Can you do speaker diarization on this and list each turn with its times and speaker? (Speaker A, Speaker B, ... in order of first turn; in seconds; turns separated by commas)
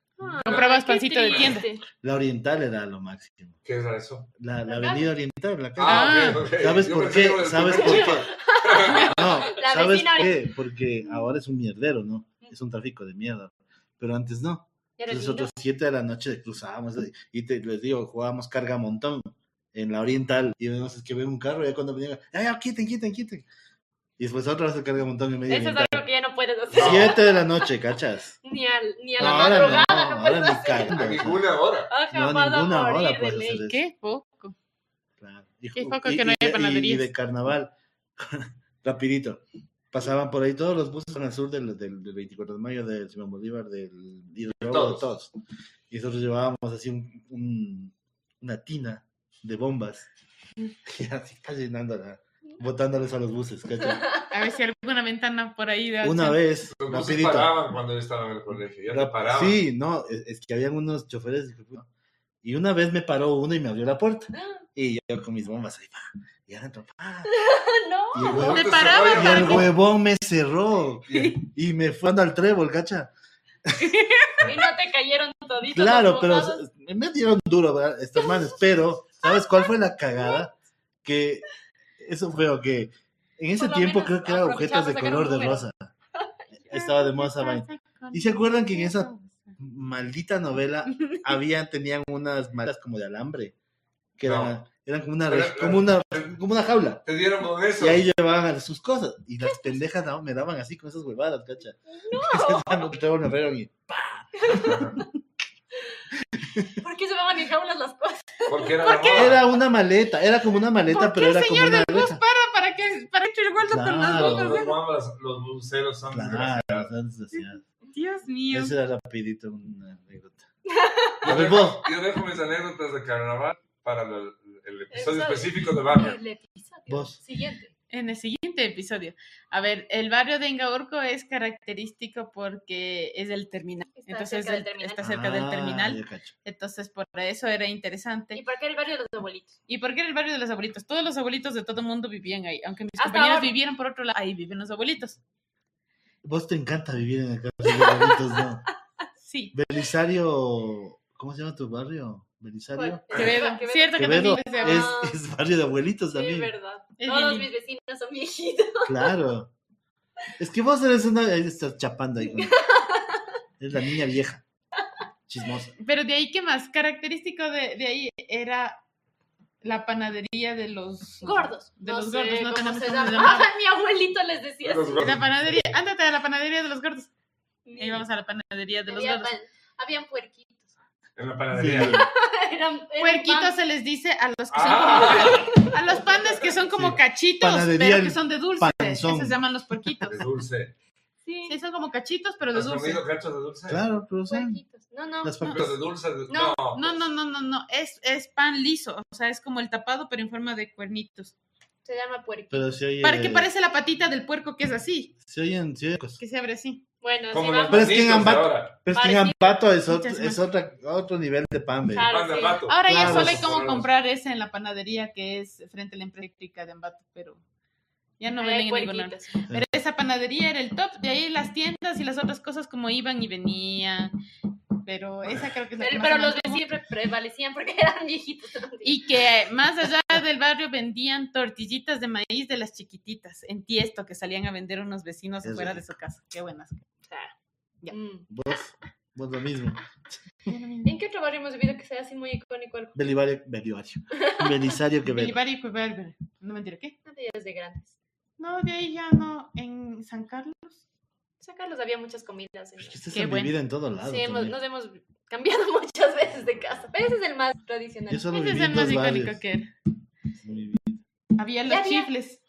Speaker A: 0.2-1.8, Speaker B: 0.4-0.7, Speaker C: 0.5-1.7, Speaker D: 2.0-3.6, Speaker B: 3.6-4.3, Speaker D: 4.4-8.3, Speaker A: 4.7-5.1, Speaker B: 5.8-9.3, Speaker C: 5.8-6.4, Speaker A: 7.6-10.5, Speaker D: 9.0-23.5, Speaker A: 11.1-11.3, Speaker A: 15.0-15.5, Speaker D: 24.2-26.1, Speaker A: 25.5-27.7, Speaker B: 26.7-27.2, Speaker D: 26.7-28.4, Speaker A: 28.4-31.4, Speaker D: 29.2-31.4, Speaker C: 29.2-29.8, Speaker B: 30.9-31.9, Speaker A: 31.9-33.6, Speaker D: 32.1-33.8, Speaker C: 33.7-34.5, Speaker D: 35.2-45.3, Speaker C: 35.7-37.1, Speaker B: 44.6-45.0, Speaker D: 45.9-50.1, Speaker D: 50.8-54.0, Speaker C: 54.3-56.4, Speaker D: 56.0-57.5, Speaker B: 56.7-59.6, Speaker D: 58.9-61.9, Speaker D: 62.4-67.3, Speaker A: 67.3-69.4, Speaker D: 68.1-73.1, Speaker B: 68.3-69.7, Speaker C: 68.5-69.7, Speaker B: 71.1-71.4, Speaker D: 73.7-73.9, Speaker C: 73.8-74.4, Speaker A: 74.4-76.6, Speaker D: 75.7-80.5, Speaker A: 78.2-78.5, Speaker A: 79.2-80.5, Speaker D: 81.0-81.5, Speaker D: 82.0-85.9, Speaker A: 83.5-86.3, Speaker D: 86.5-93.5, Speaker C: 86.7-89.5, Speaker D: 94.2-97.0, Speaker B: 94.2-94.5, Speaker B: 95.2-96.3, Speaker B: 97.0-98.0, Speaker D: 97.8-104.9, Speaker A: 99.4-99.7, Speaker A: 101.9-102.9, Speaker A: 104.3-104.9, Speaker B: 104.6-105.0, Speaker D: 106.4-106.8, Speaker A: 106.7-109.2, Speaker B: 108.5-109.4, Speaker C: 108.8-109.3, Speaker D: 109.1-112.2, Speaker C: 110.8-114.8, Speaker D: 113.7-114.6, Speaker B: 114.1-116.9, Speaker D: 116.1-117.6, Speaker C: 117.9-118.7, Speaker D: 118.5-120.4, Speaker A: 120.7-121.7, Speaker D: 121.2-121.8, Speaker B: 121.2-126.2, Speaker A: 124.9-127.7, Speaker D: 126.9-127.2, Speaker C: 127.9-138.4, Speaker A: 133.9-135.0, Speaker D: 135.0-136.3, Speaker A: 138.3-139.6, Speaker C: 139.7-145.2, Speaker A: 143.0-143.5, Speaker D: 146.2-148.7, Speaker A: 147.7-148.2, Speaker C: 149.2-149.5, Speaker D: 149.5-156.5, Speaker A: 152.7-155.2, Speaker C: 153.1-154.9, Speaker A: 156.1-159.2, Speaker C: 157.0-157.5, Speaker D: 158.8-159.5, Speaker D: 160.4-162.6, Speaker A: 162.2-163.3, Speaker D: 163.6-164.4, Speaker D: 165.3-165.7, Speaker C: 165.8-168.8, Speaker C: 169.6-173.5, Speaker A: 171.2-175.1, Speaker B: 174.6-175.7, Speaker C: 175.0-177.1, Speaker A: 177.6-178.0, Speaker C: 177.8-179.3, Speaker A: 178.9-180.7, Speaker B: 181.2-182.0, Speaker D: 181.5-182.1, Speaker A: 181.8-183.5, Speaker C: 183.0-190.2, Speaker B: 184.5-185.7, Speaker A: 184.9-185.8, Speaker D: 186.7-189.4, Speaker B: 190.1-190.7, Speaker A: 191.2-191.6, Speaker C: 191.4-193.0, Speaker B: 192.5-193.8, Speaker D: 193.7-194.6, Speaker A: 194.3-195.7, Speaker D: 195.2-195.7, Speaker B: 195.5-197.0, Speaker A: 196.3-196.6, Speaker C: 196.7-201.3, Speaker A: 201.8-202.7, Speaker D: 202.5-203.5, Speaker C: 203.0-205.1, Speaker D: 205.2-206.2, Speaker C: 206.2-206.8, Speaker A: 207.0-208.2, Speaker B: 207.3-208.7, Speaker D: 207.7-212.1, Speaker A: 208.9-209.6, Speaker C: 209.9-210.4, Speaker A: 211.9-212.7, Speaker B: 212.0-213.9, Speaker C: 212.7-217.4, Speaker D: 212.8-213.6, Speaker C: 218.2-224.1, Speaker A: 218.3-219.4, Speaker D: 219.5-219.8, Speaker C: 224.8-226.7, Speaker A: 225.8-229.0, Speaker C: 228.8-236.8, Speaker D: 235.4-235.8, Speaker A: 237.1-237.3, Speaker A: 237.9-238.3, Speaker D: 238.3-240.2, Speaker C: 240.5-240.9, Speaker A: 240.8-243.0, Speaker D: 242.9-245.4, Speaker A: 244.1-244.7, Speaker C: 245.1-246.9, Speaker A: 247.0-247.9, Speaker C: 248.4-250.8, Speaker A: 251.4-253.0, Speaker D: 252.8-254.6, Speaker C: 253.1-253.5, Speaker A: 254.0-258.7, Speaker D: 258.1-259.4, Speaker C: 258.3-259.7, Speaker D: 260.4-261.0, Speaker C: 261.4-262.4, Speaker A: 261.6-262.1